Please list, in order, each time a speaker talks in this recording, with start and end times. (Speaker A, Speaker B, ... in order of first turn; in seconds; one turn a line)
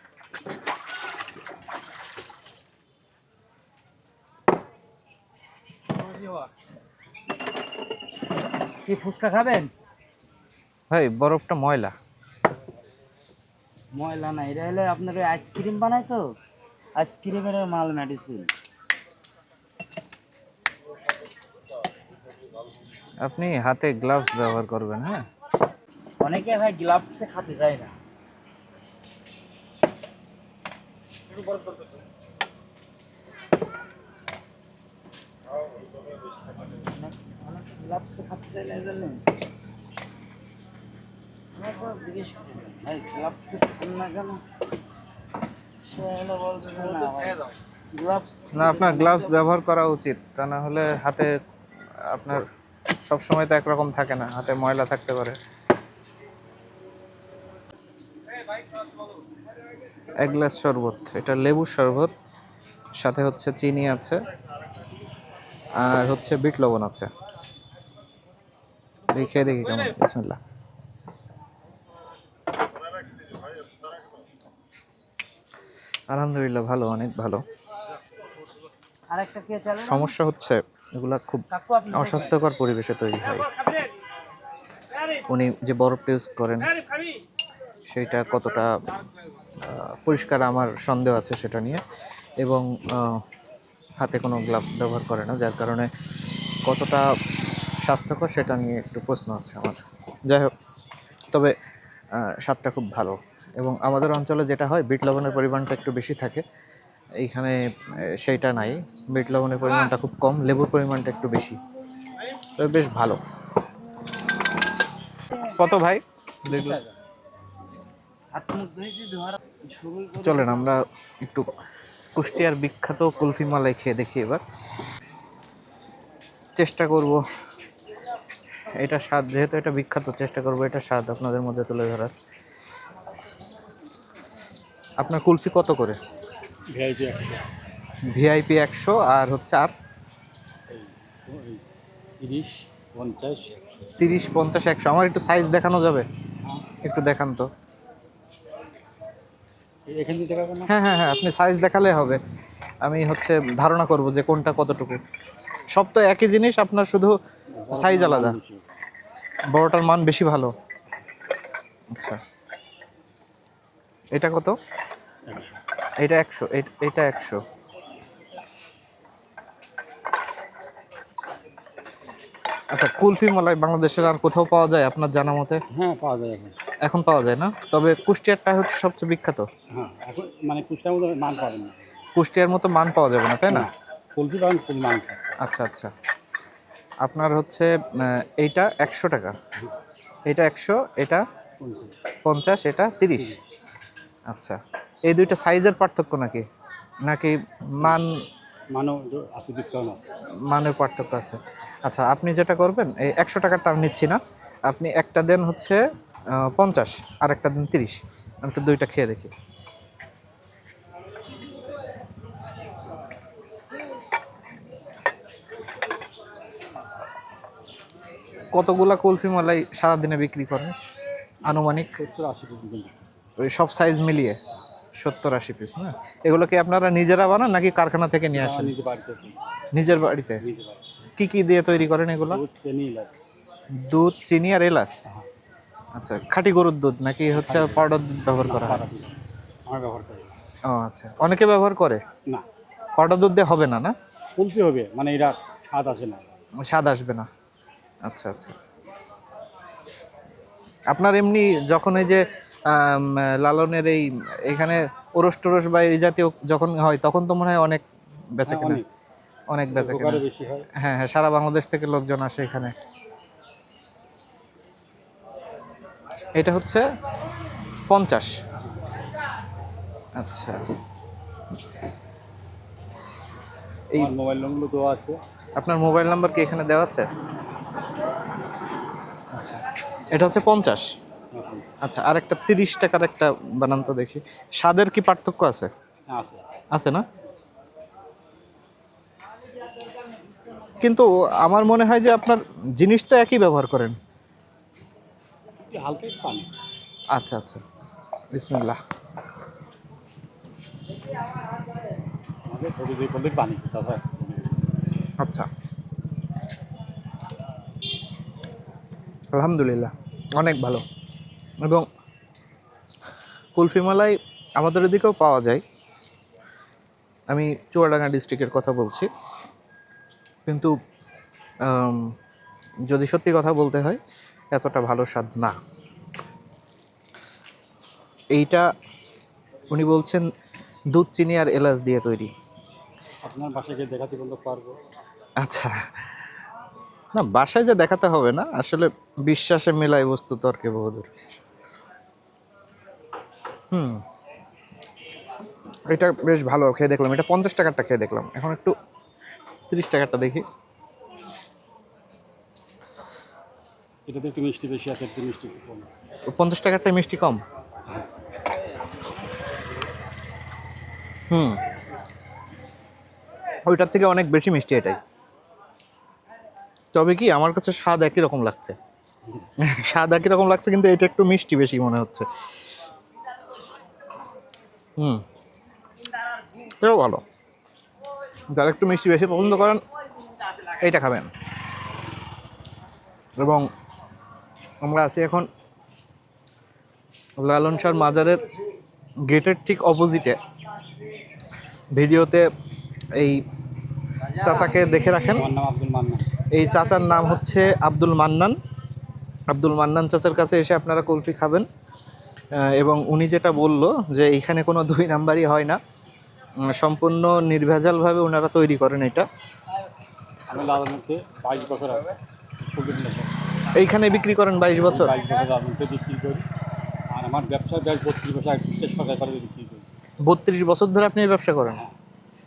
Speaker A: 8.8-9.7
Speaker B: 10.9-11.9
Speaker A: 13.9-16.3
Speaker A: 16.9-18.5
Speaker B: 23.2-25.2
Speaker A: 26.2-27.9
Speaker A: 36.7-39.2
Speaker A: 41.5-44.4
Speaker A: 45.8-49.4
Speaker B: 48.5-51.3
Speaker B: 52.1-52.4
Speaker B: 53.0-55.4
Speaker B: 60.2-62.1
Speaker B: 63.0-64.2
Speaker B: 65.8-67.1
Speaker B: 69.1-70.4
Speaker B: 76.1-77.4
Speaker A: 79.1-80.1
Speaker B: 79.8-83.5
Speaker A: 81.5-82.3
Speaker B: 85.3-86.7
Speaker B: 87.9-88.7
Speaker B: 89.6-91.8
Speaker B: 92.4-93.2
Speaker B: 94.0-95.9
Speaker B: 96.6-97.0
Speaker B: 97.8-100.5
Speaker B: 102.1-106.4
Speaker B: 107.2-107.6
Speaker B: 108.2-111.6
Speaker B: 112.6-113.2
Speaker B: 115.4-116.8
Speaker C: 116.5-116.9
Speaker A: 118.3-120.6
Speaker B: 120.2-121.5
Speaker B: 122.1-124.4
Speaker B: 126.6-127.2
Speaker B: 128.8-132.1
Speaker B: 135.0-136.0
Speaker C: 136.7-137.4
Speaker B: 138.1-139.7
Speaker C: 140.7-141.6
Speaker C: 142.2-143.9
Speaker B: 144.0-146.1
Speaker B: 146.8-147.5
Speaker C: 149.9-150.7
Speaker B: 150.7-152.2
Speaker B: 152.8-155.0
Speaker B: 155.7-157.2
Speaker C: 157.6-158.6
Speaker B: 157.7-158.3
Speaker B: 159.5-160.5
Speaker B: 161.9-162.2
Speaker B: 164.1-164.5
Speaker C: 165.3-165.6
Speaker B: 166.0-167.4
Speaker B: 172.7-175.6
Speaker C: 175.7-176.6
Speaker B: 176.8-179.5
Speaker C: 179.7-181.9
Speaker B: 182.2-183.7
Speaker C: 183.5-185.4
Speaker B: 185.4-185.9
Speaker B: 187.0-189.4
Speaker B: 190.2-191.2
Speaker C: 191.6-191.9
Speaker B: 192.2-193.4
Speaker B: 194.3-196.4
Speaker B: 197.1-198.2
Speaker C: 198.7-200.1
Speaker B: 200.5-205.8
Speaker B: 206.4-209.3
Speaker B: 218.5-220.7
Speaker B: 221.4-222.0
Speaker C: 222.0-222.9
Speaker B: 223.4-224.4
Speaker B: 225.0-228.7
Speaker C: 228.3-229.4
Speaker B: 229.7-230.4
Speaker C: 230.4-230.8
Speaker B: 231.2-232.4
Speaker C: 232.3-233.2
Speaker B: 233.8-235.0
Speaker B: 235.9-238.8
Speaker C: 237.4-240.4
Speaker B: 240.7-242.0
Speaker B: 242.9-243.9
Speaker C: 244.3-246.3
Speaker B: 246.6-247.3
Speaker B: 248.1-248.6
Speaker B: 250.9-257.8
Speaker B: 258.3-258.8
Speaker C: 258.4-258.9
Speaker B: 259.5-260.2
Speaker C: 259.7-260.7
Speaker B: 260.7-262.7
Speaker B: 266.3-266.9
Speaker B: 267.9-268.4
Speaker B: 270.2-270.6
Speaker C: 273.9-275.2
Speaker B: 275.6-277.1
Speaker B: 279.3-280.9
Speaker C: 281.3-281.7
Speaker B: 281.8-285.7
Speaker C: 286.1-286.4
Speaker B: 286.7-287.0
Speaker B: 290.8-293.9
Speaker C: 295.6-296.5
Speaker B: 297.1-297.6
Speaker B: 298.3-298.8
Speaker C: 302.5-304.6
Speaker B: 305.2-305.5
Speaker B: 309.3-310.8
Speaker B: 313.6-315.6
Speaker B: 317.3-319.1
Speaker B: 320.4-320.7
Speaker B: 321.6-322.1
Speaker B: 322.9-324.0
Speaker B: 324.5-325.6
Speaker B: 328.3-328.7
Speaker B: 329.7-330.2
Speaker B: 330.9-332.3
Speaker C: 333.2-334.8
Speaker B: 335.4-336.1
Speaker B: 337.1-341.1
Speaker B: 343.7-344.0
Speaker B: 345.9-348.7
Speaker B: 349.7-350.4
Speaker C: 354.1-355.9
Speaker B: 356.3-357.4
Speaker B: 361.3-361.6
Speaker B: 363.6-365.0
Speaker B: 366.9-368.8
Speaker B: 369.6-372.3
Speaker B: 375.0-375.2
Speaker B: 376.6-377.2
Speaker B: 378.5-379.8
Speaker B: 380.7-381.3
Speaker B: 383.4-383.7
Speaker B: 384.8-385.5
Speaker B: 387.4-388.4
Speaker B: 389.2-390.4
Speaker B: 391.9-392.5
Speaker B: 393.1-393.4
Speaker B: 394.4-395.5
Speaker C: 394.4-396.3
Speaker B: 396.5-398.6
Speaker B: 399.5-401.6
Speaker B: 402.6-405.8
Speaker B: 406.6-409.2
Speaker C: 410.5-413.3
Speaker B: 413.7-415.1
Speaker C: 414.8-416.4
Speaker C: 417.1-419.9
Speaker B: 420.2-421.8
Speaker C: 421.7-421.9